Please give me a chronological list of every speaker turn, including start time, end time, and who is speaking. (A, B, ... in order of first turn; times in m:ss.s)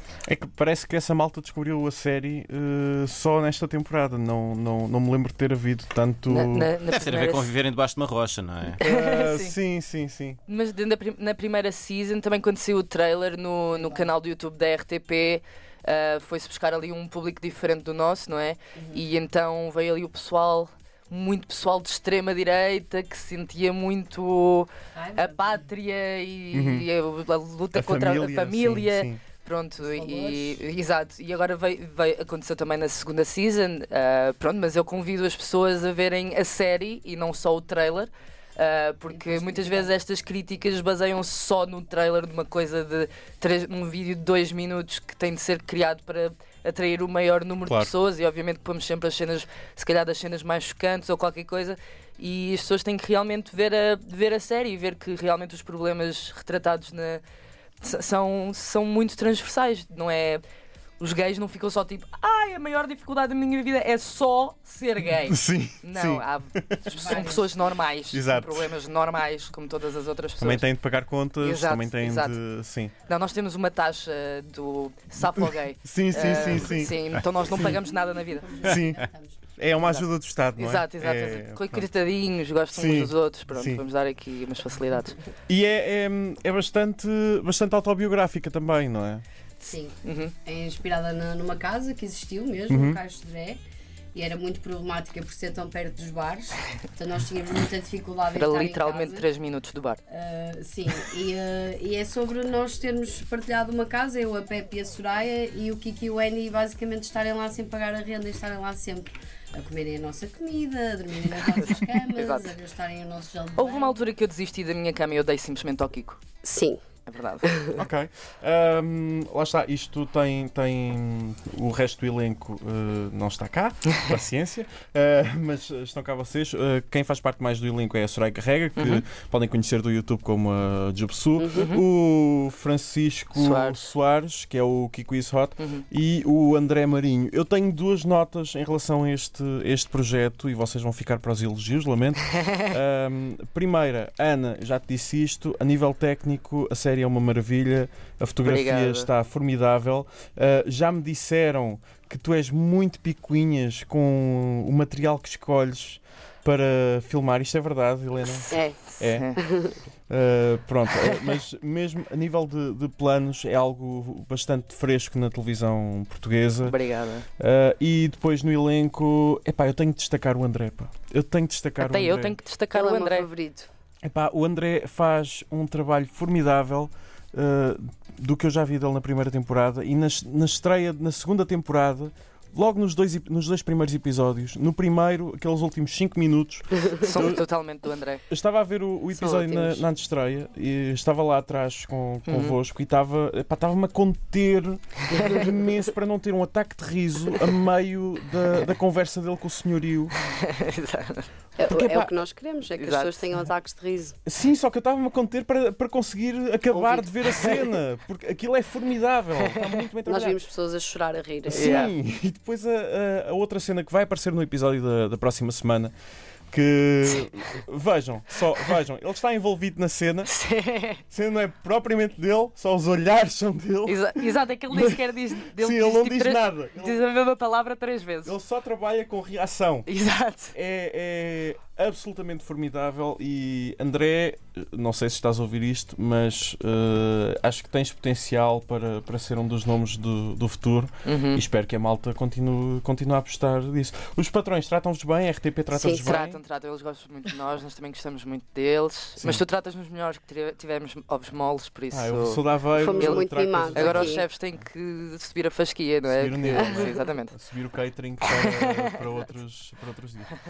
0:00.2-0:06.7 A
0:06.3-0:07.5 B
0:06.9-0:08.8 C
0:08.8-0:09.6 B
0:08.8-0:10.4 A
0:10.5-0:57.2 B
0:13.7-0:14.1 D
0:18.8-0:19.0 D
0:24.9-0:25.7 D
0:26.5-0:26.9 A
0:27.7-0:29.2 A
0:29.8-0:30.6 D
0:39.1-0:39.9 D
0:47.7-0:47.9 A
0:57.8-1:00.4 B
1:01.0-1:10.6 B
1:05.3-1:06.9 A
1:06.9-1:07.5 D
1:08.1-1:08.7 A
1:10.4-1:12.9 A
1:11.4-1:12.4 B
1:13.0-1:18.6 B
1:15.2-1:16.9 A
1:18.3-1:19.4 D
1:18.7-1:19.0 A
1:19.6-1:21.9 A
1:19.8-1:25.2 B
1:22.7-1:23.8 A
1:25.5-1:29.2 A
1:29.6-1:30.3 B
1:29.6-1:33.6 D
1:32.7-1:33.0 A
1:34.1-1:39.3 D
1:38.3-1:40.0 B
1:40.1-1:54.1 D
1:51.4-1:52.6 B
1:53.6-1:56.2 B
1:56.4-1:56.8 D
1:57.1-1:57.5 B
1:57.4-1:57.8 D
1:57.8-2:39.3 A
2:08.8-2:09.0 B
2:11.4-2:11.7 D
2:11.5-2:11.8 B
2:13.3-2:13.9 B
2:15.6-2:15.8 B
2:22.3-2:22.7 B
2:28.4-2:29.1 B
2:38.2-2:39.4 B
2:38.5-2:39.8 D
2:40.1-2:46.8 A
2:46.6-2:47.3 B
2:47.4-2:52.4 A
2:51.8-2:53.3 B
2:52.7-2:53.7 D
2:54.0-3:07.5 A
3:06.8-3:07.1 D
3:07.0-3:08.2 B
3:08.3-3:20.1 A
3:09.1-3:09.8 D
3:12.3-3:12.6 B
3:15.1-3:15.5 B
3:20.2-3:21.3 B
3:21.6-3:24.2 D
3:21.7-3:22.0 A
3:22.8-3:23.3 B
3:24.2-3:30.4 A
3:26.7-3:27.2 D
3:27.3-3:27.6 B
3:29.4-3:29.8 B
3:30.0-3:31.9 D
3:31.5-3:35.9 A
3:31.5-3:31.9 B
3:36.5-3:40.3 A
3:40.3-3:41.0 B
3:41.1-3:45.0 A
3:43.9-3:48.4 B
3:45.6-3:47.0 A
3:48.2-3:49.9 A
3:49.9-3:50.6 B
3:50.5-4:06.4 A
4:01.0-4:01.4 B
4:05.7-4:06.2 D
4:06.0-4:12.4 B
4:11.9-4:14.2 A
4:12.8-4:14.3 D
4:13.0-4:17.4 B
4:16.1-4:20.4 A
4:16.5-4:17.0 D
4:18.2-4:19.0 B